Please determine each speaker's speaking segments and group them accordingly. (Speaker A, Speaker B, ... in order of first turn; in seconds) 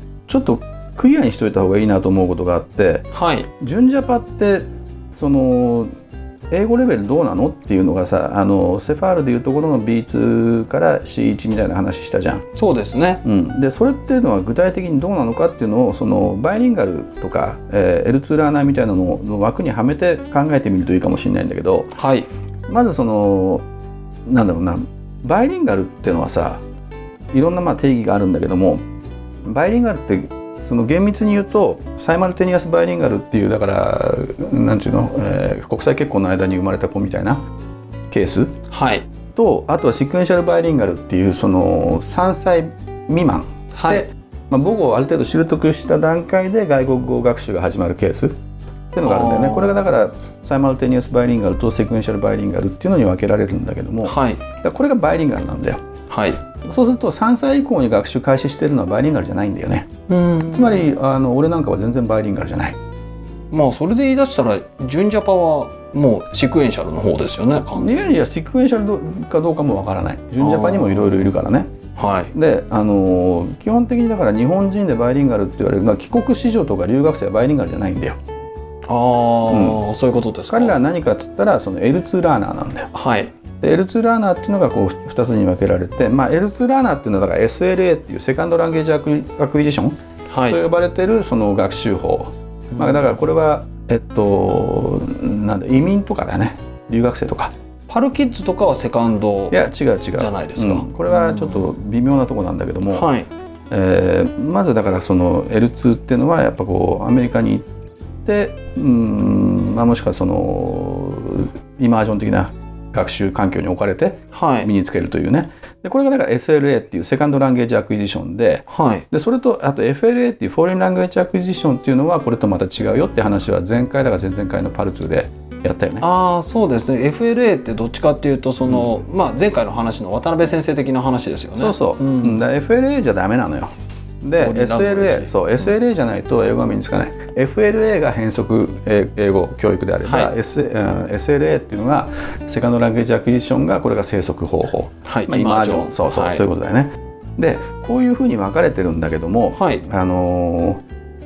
Speaker A: 0.3-3.0, 3.6-5.9, 6.5-12.4, 13.2-21.9, 22.7-23.6, 24.3-26.6, 27.3-28.8, 29.4-37.5, 38.1-38.5, 39.3-48.4, 48.9-55.8, 56.6-59.9, 60.4-62.8, 67.8-71.7, 72.3-78.2, 79.5-79.8, 80.5-82.9, 83.6-90.0, 90.5-97.5, 99.5-103.1, 103.7-107.7, 108.2-126.0, 128.6-128.9, 131.6-133.7, 134.2-150.8
Speaker B: 3.1-3.5, 12.6-13.2, 21.9-22.3, 38.7-39.0, 43.7-44.1, 49.0-49.8, 54.0-54.4, 56.1-56.4, 60.1-60.9, 63.5-68.2, 70.4-71.3, 72.0-72.3, 78.9-80.8, 82.9-83.3, 90.3-90.6, 92.7-93.1, 97.9-99.6, 100.1-101.7, 102.9-103.3, 114.3-114.7, 118.7-119.0, 126.0-132.4, 134.4-135.3, 140.0-140.3, 145.0-146.4, 149.5-149.8